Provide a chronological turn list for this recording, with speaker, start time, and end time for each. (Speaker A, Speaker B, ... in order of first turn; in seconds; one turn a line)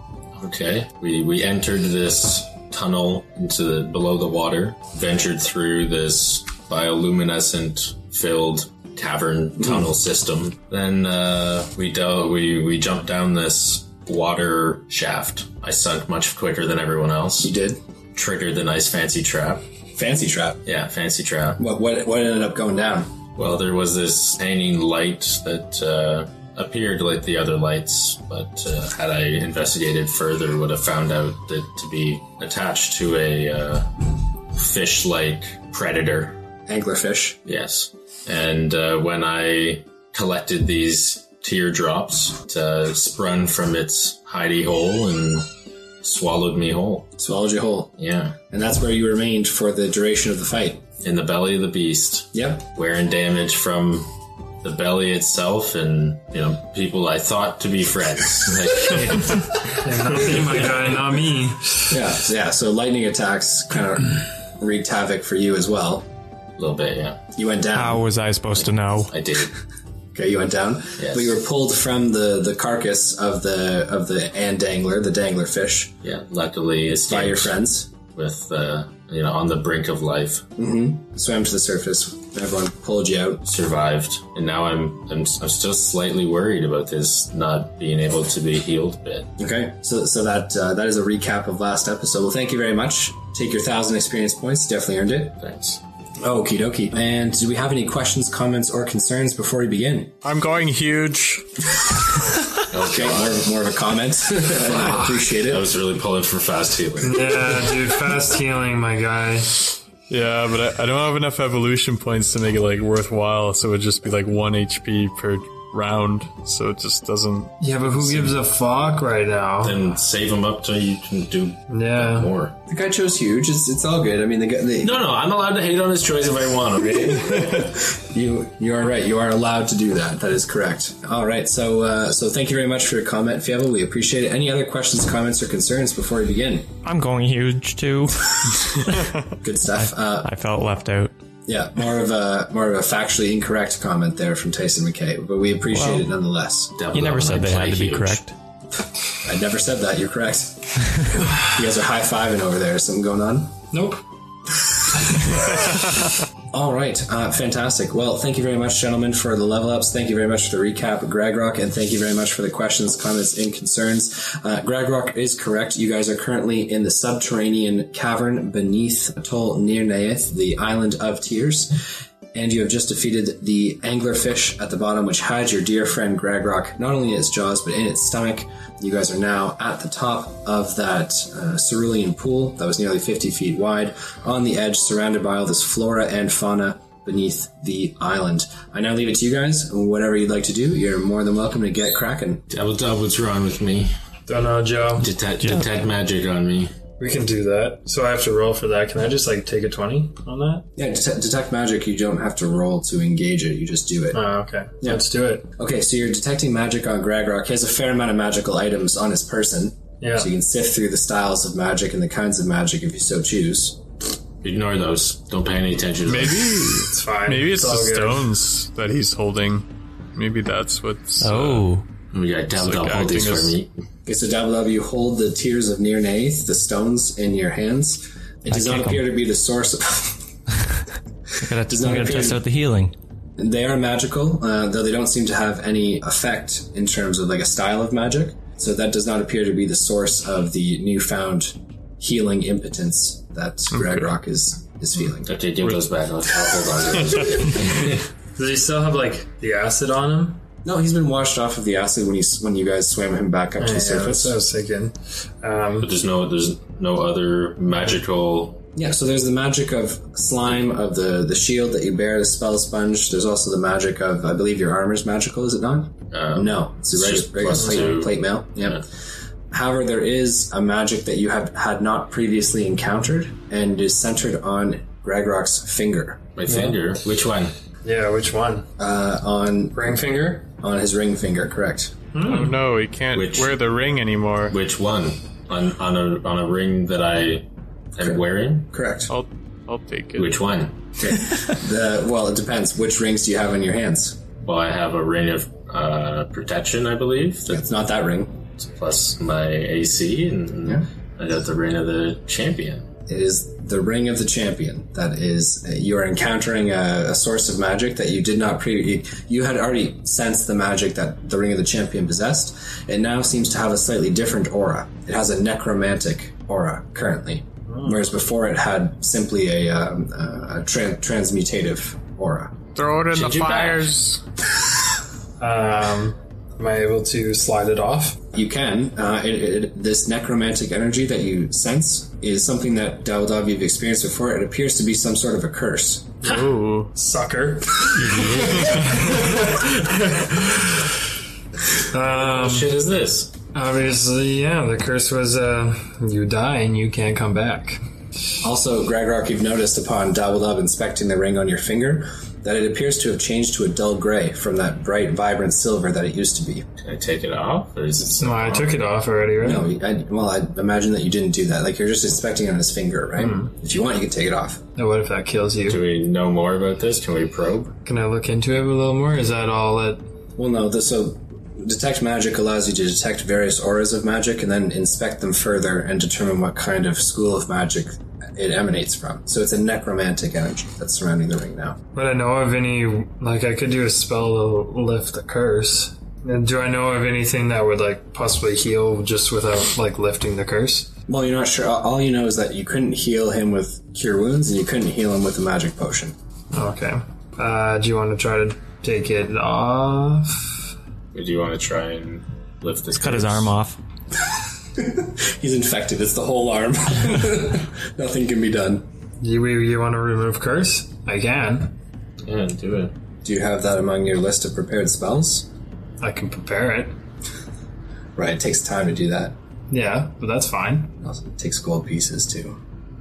Speaker A: 0.3-17.5
Speaker B: 17.4-17.8
Speaker A: 18.1-19.6
Speaker B: 19.9-20.6
Speaker A: 20.6-21.6
Speaker B: 21.6-23.1
Speaker A: 23.4-36.4
Speaker B: 36.7-37.4
Speaker A: 37.5-45.5
Speaker A: 46.0-47.1
Speaker B: 47.2-47.9
Speaker A: 48.0-48.4
Speaker B: 48.5-50.8
Speaker A: 51.0-54.1
Speaker B: 52.3-52.6
Speaker A: 54.6-60.7
Speaker C: 59.8-61.9
Speaker B: 61.9-66.1
Speaker A: 66.6-67.2
Speaker B: 67.4-68.1
Speaker D: 67.7-69.1
Speaker A: 68.6-69.5
Speaker B: 70.1-75.9
Speaker A: 71.0-71.3
Speaker A: 76.0-77.5
Speaker B: 77.1-77.9
Speaker A: 78.2-80.5
Speaker B: 80.6-83.4
Speaker A: 83.5-89.3
Speaker B: 89.4-95.4
Speaker A: 95.4-95.8
Speaker B: 96.2-100.2
Speaker E: 100.2-102.2
Speaker A: 102.7-103.4
Speaker B: 102.8-105.7
Speaker A: 104.7-107.7
Speaker C: 107.0-109.6
Speaker E: 110.1-118.4
Speaker C: 117.6-119.8
Speaker A: 119.6-122.5
Speaker C: 121.7-122.3
Speaker B: 122.7-125.0
Speaker A: 124.8-127.7
Speaker B: 127.0-136.7
Speaker D: 136.8-139.1
Speaker B: 139.4-140.3
Speaker D: 139.7-141.1
Speaker B: 141.5-146.7
Speaker D: 145.7-146.1
Speaker A: 146.8-148.2
Speaker D: 146.9-148.3
Speaker B: 149.2-153.6
Speaker C: 153.7-154.0
Speaker B: 155.2-155.6
Speaker B: 156.5-171.8
Speaker B: 172.3-192.4
Speaker A: 192.5-193.9
Speaker C: 194.3-195.1
Speaker A: 195.0-196.7
Speaker D: 195.4-195.7
Speaker C: 197.0-200.7
Speaker B: 200.8-204.2
Speaker C: 204.1-205.5
Speaker B: 205.6-213.8
Speaker C: 210.0-210.3
Speaker A: 214.4-216.7
Speaker E: 216.1-221.7
Speaker C: 216.9-218.3
Speaker D: 221.2-221.8
Speaker A: 222.1-223.7
Speaker E: 222.6-223.6
Speaker B: 224.1-230.2
Speaker D: 228.5-229.1
Speaker D: 231.4-232.9
Speaker B: 231.7-232.4
Speaker B: 233.4-245.4
Speaker E: 243.7-244.0
Speaker A: 245.2-248.0
Speaker E: 247.2-247.5
Speaker C: 248.4-250.4
Speaker B: 250.7-254.4
Speaker C: 253.6-255.9
Speaker A: 255.8-258.6
Speaker B: 258.8-268.8
Speaker A: 266.1-268.8
Speaker B: 269.5-276.3
Speaker A: 276.4-277.5
Speaker C: 276.5-276.8
Speaker C: 277.8-278.7
Speaker B: 278.8-281.9
Speaker C: 279.8-280.5
Speaker C: 282.1-282.6
Speaker E: 282.2-284.6
Speaker A: 283.1-283.6
Speaker A: 284.5-288.7
Speaker B: 288.7-289.1
Speaker E: 289.1-290.4
Speaker A: 290.2-290.8
Speaker B: 291.0-294.2
Speaker A: 294.4-297.6
Speaker B: 297.5-298.4
Speaker A: 298.6-302.9
Speaker B: 303.1-322.6
Speaker C: 317.7-318.0
Speaker E: 322.8-324.2
Speaker A: 323.1-324.0
Speaker C: 325.4-328.2
Speaker B: 328.3-336.2
Speaker E: 336.2-336.9
Speaker C: 336.9-340.9
Speaker A: 337.9-339.2
Speaker C: 341.9-342.7
Speaker A: 342.1-343.3
Speaker C: 343.5-347.8
Speaker B: 348.4-356.6
Speaker A: 356.8-358.9
Speaker C: 358.2-359.6
Speaker B: 359.4-364.6
Speaker C: 363.2-363.5
Speaker C: 364.8-365.8
Speaker A: 365.7-367.7
Speaker C: 367.9-370.0
Speaker B: 370.4-381.8
Speaker C: 381.9-390.9
Speaker B: 391.1-396.1
Speaker C: 396.5-400.5
Speaker A: 401.1-403.5
Speaker D: 403.0-403.8
Speaker B: 404.8-408.9
Speaker C: 409.2-411.7
Speaker A: 412.2-412.9
Speaker B: 413.2-415.5
Speaker C: 416.0-416.9
Speaker B: 418.2-419.4
Speaker C: 419.7-420.9
Speaker B: 421.0-422.6